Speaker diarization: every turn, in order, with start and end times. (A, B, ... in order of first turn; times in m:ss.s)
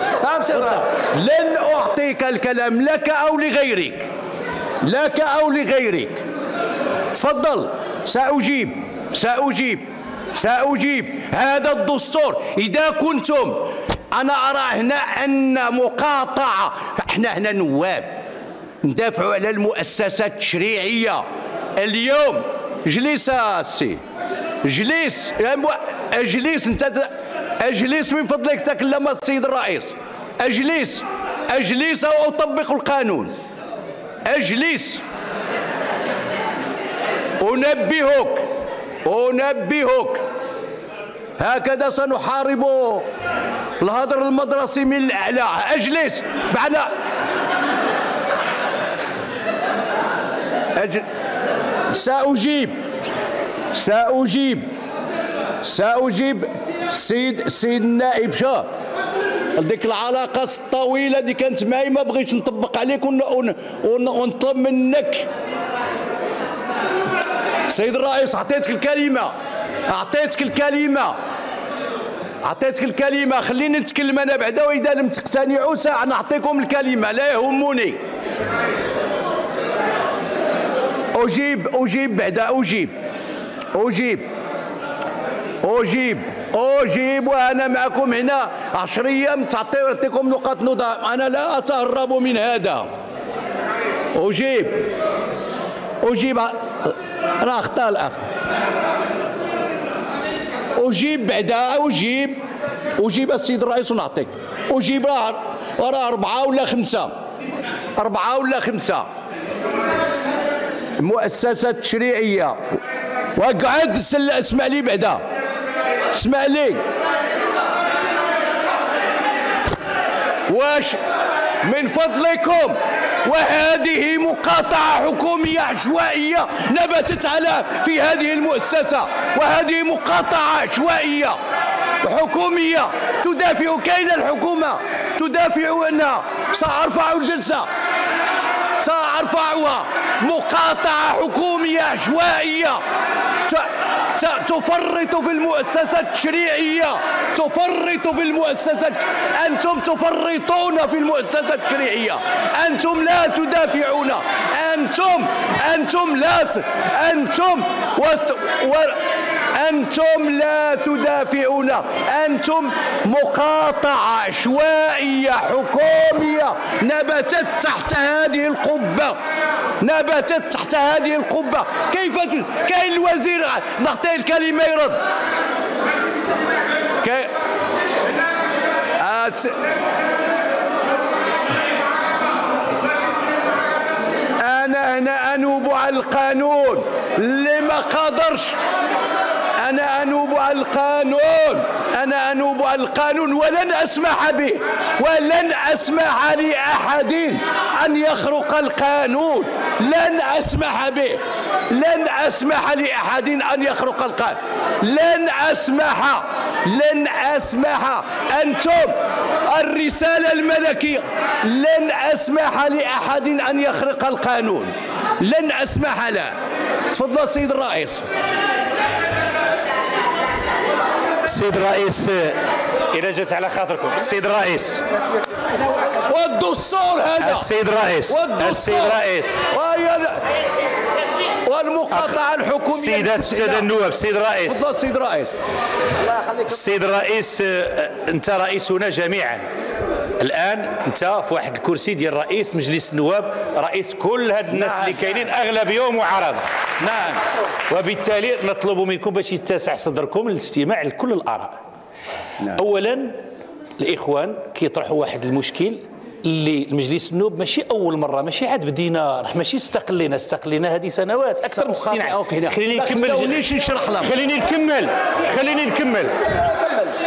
0:00.3-0:04.1 A
0:04.8-0:06.2 A
0:07.1-0:18.2 A
0:18.8-0:21.2 A
0:21.8-0:24.0 A
0:24.6-0:33.3 A
0:34.3-0:35.0 A
0:37.4-0:38.4 A
0:39.1-0:40.2 A
0:41.4-0:43.1 A
0:43.8-0:46.9 A
0:50.8-0:51.0 A
0:51.9-0:52.8 A
0:53.7-0:54.7 A
0:55.6-0:58.7 A
0:59.6-1:05.3 A
1:07.7-1:09.3 A
1:09.9-1:11.2 A
1:12.4-1:18.0 A
1:21.2-1:22.9 A
1:23.7-1:24.3 A
1:25.6-1:32.9 A
1:34.2-1:34.8 A
1:36.0-1:38.2 A
1:40.8-1:42.4 A
1:43.0-1:47.1 A
1:48.0-1:49.0 A
1:51.0-1:52.6 A
1:53.4-1:55.2 A
1:56.1-1:56.8 A
2:00.5-2:01.0 A
2:01.6-2:11.4 A
2:12.0-2:17.7 A
2:18.8-2:22.8 A
2:23.5-2:39.0 A
2:39.5-2:49.2 A
2:49.8-2:55.0 A
2:57.0-2:57.3 A
2:59.0-2:59.6 A
3:04.4-3:08.6 A
3:09.6-3:28.9 A
3:29.5-3:36.3 A
3:36.9-3:38.0 A
3:41.3-3:42.4 B
3:42.9-3:44.9 B
3:46.1-3:47.5 A
3:47.2-3:49.5 B
3:48.1-3:50.2 A
3:51.5-3:53.7 A
3:52.7-3:54.6 B
3:54.5-3:55.3 A
3:56.1-3:59.5 B
4:00.2-4:06.5 B
4:04.5-4:05.1 A
4:06.8-4:07.2 A
4:07.7-4:11.6 B
4:12.5-4:13.2 B
4:13.8-4:23.4 B
4:21.5-4:24.1 A
4:24.0-4:26.4 B